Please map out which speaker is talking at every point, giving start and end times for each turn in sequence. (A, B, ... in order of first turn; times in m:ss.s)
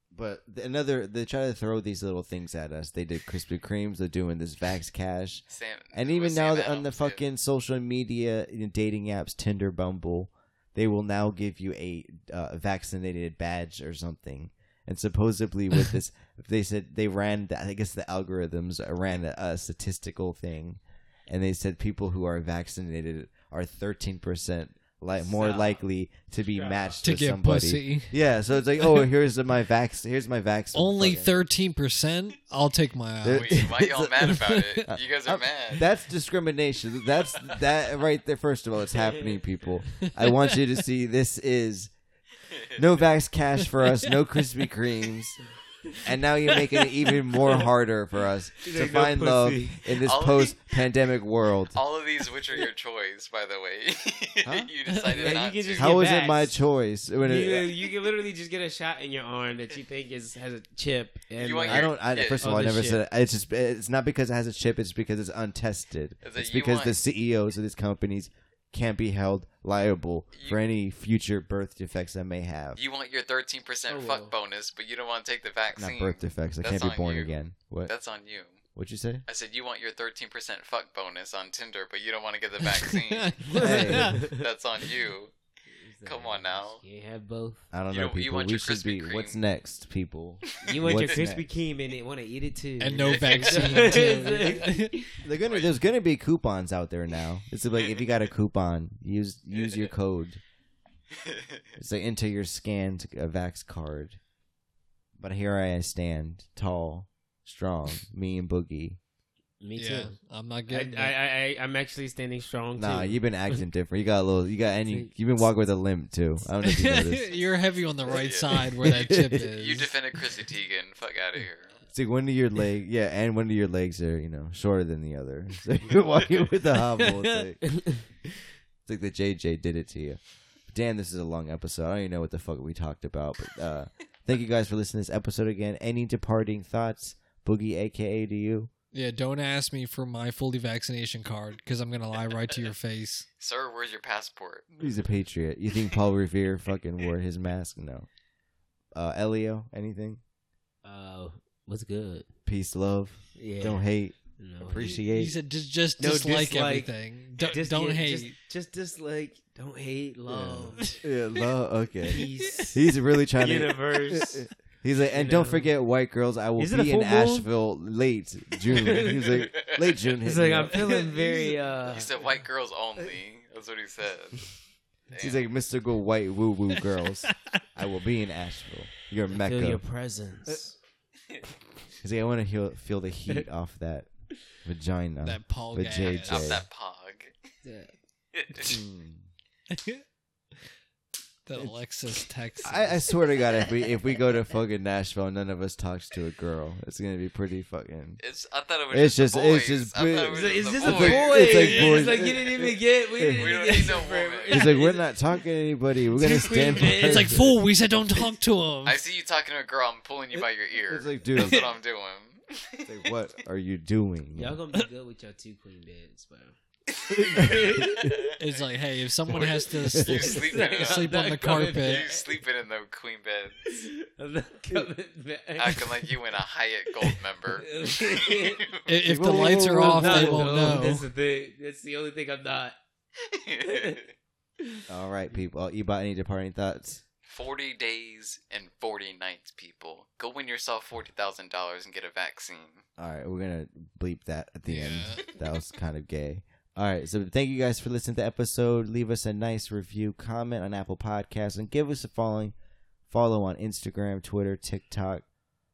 0:00.1-0:31.4 A
0:05.5-0:07.2 B
0:25.2-0:25.8 C
0:26.5-0:27.0 C
0:27.0-0:28.2 D
0:30.7-0:33.7 D
0:33.2-0:34.3 A
0:33.3-0:35.8 B
0:34.3-0:34.8 D
0:34.9-0:41.9 A
0:39.0-0:39.4 C
0:42.8-0:45.4 A
0:46.0-0:51.8 A
0:48.7-0:50.0 C
0:50.0-0:50.6 B
0:51.7-0:56.0 B
0:54.4-0:54.7 A
0:54.9-0:55.3 D
0:55.1-0:56.6 C
0:55.8-0:57.7 A
0:57.2-1:03.0 C
1:01.4-1:02.6 B
1:01.7-1:12.8 A
1:06.2-1:07.0 B
1:12.8-1:18.6 B
1:13.9-1:14.3 C
1:15.8-1:17.9 A
1:18.8-1:19.2 A
1:19.3-1:25.3 B
1:22.7-1:24.2 D
1:23.5-1:24.5 C
1:23.6-1:24.2 A
1:25.7-1:27.7 C
1:26.0-1:26.8 B
1:27.7-1:31.4 A
1:27.9-1:29.4 B
1:30.5-1:31.2 B
1:30.6-1:35.0 C
1:32.8-1:35.0 D
1:33.1-1:34.6 B
1:35.2-1:40.4 A
1:35.4-1:35.7 B
1:37.8-1:38.1 B
1:39.6-1:39.9 B
1:41.2-1:41.6 B
1:41.8-1:44.2 A
1:45.2-1:49.0 A
1:49.6-1:50.1 C
1:49.8-1:51.2 D
1:50.7-1:53.6 C
1:52.8-1:57.3 A
1:56.6-1:59.9 D
1:58.1-2:01.8 B
1:58.8-1:59.5 A
2:01.9-2:08.0 A
2:08.9-2:18.7 A
2:18.9-2:23.2 D
2:23.4-2:24.8 B
2:24.8-2:28.1 A
2:29.0-2:30.2 A
2:30.8-2:32.3 C
2:32.5-2:35.4 A
2:33.4-2:33.8 C
2:34.4-2:35.0 C
2:35.1-2:38.4 D
2:36.0-2:41.0 C
2:40.3-2:50.9 A
2:42.1-2:42.8 C
2:42.4-2:42.7 D
2:43.4-2:44.4 C
2:45.1-2:45.7 C
2:46.6-2:47.5 C
2:48.7-2:49.4 C
2:49.2-2:50.2 B
2:50.2-2:52.3 C
2:51.0-2:51.5 D
2:51.9-2:54.6 B
2:55.1-2:55.4 B
2:55.2-2:59.8 A
2:59.3-3:00.8 C
3:02.0-3:06.7 A
3:05.2-3:06.6 D
3:06.0-3:07.3 B
3:07.6-3:07.9 C
3:08.3-3:08.8 B
3:08.5-3:08.8 C
3:08.7-3:09.2 A
3:09.7-3:10.0 D
3:11.5-3:13.1 D
3:12.6-3:18.2 A
3:18.2-3:21.6 B
3:18.9-3:23.8 A
3:20.3-3:25.1 C
3:21.5-3:22.1 D
3:23.3-3:24.7 B
3:24.5-3:27.4 A
3:26.2-3:27.5 C
3:27.0-3:29.0 D
3:28.9-3:32.9 B
3:30.9-3:31.7 A
3:32.9-3:34.6 A
3:34.3-3:36.6 C
3:37.1-3:38.2 B
3:37.2-3:38.1 C
3:37.4-3:38.0 A
3:38.4-3:42.0 D
3:39.3-3:43.8 B
3:40.2-3:42.3 C
3:43.6-3:46.1 C
3:45.6-3:48.8 B
3:47.0-3:48.7 C
3:48.9-3:51.0 D
3:49.1-3:50.8 A
3:49.3-3:52.8 C
3:53.2-3:54.1 B
3:53.7-3:54.0 C
3:54.9-3:57.0 A
3:57.3-4:02.8 B
4:03.0-4:12.6 A
4:04.7-4:05.2 D
4:13.1-4:15.2 A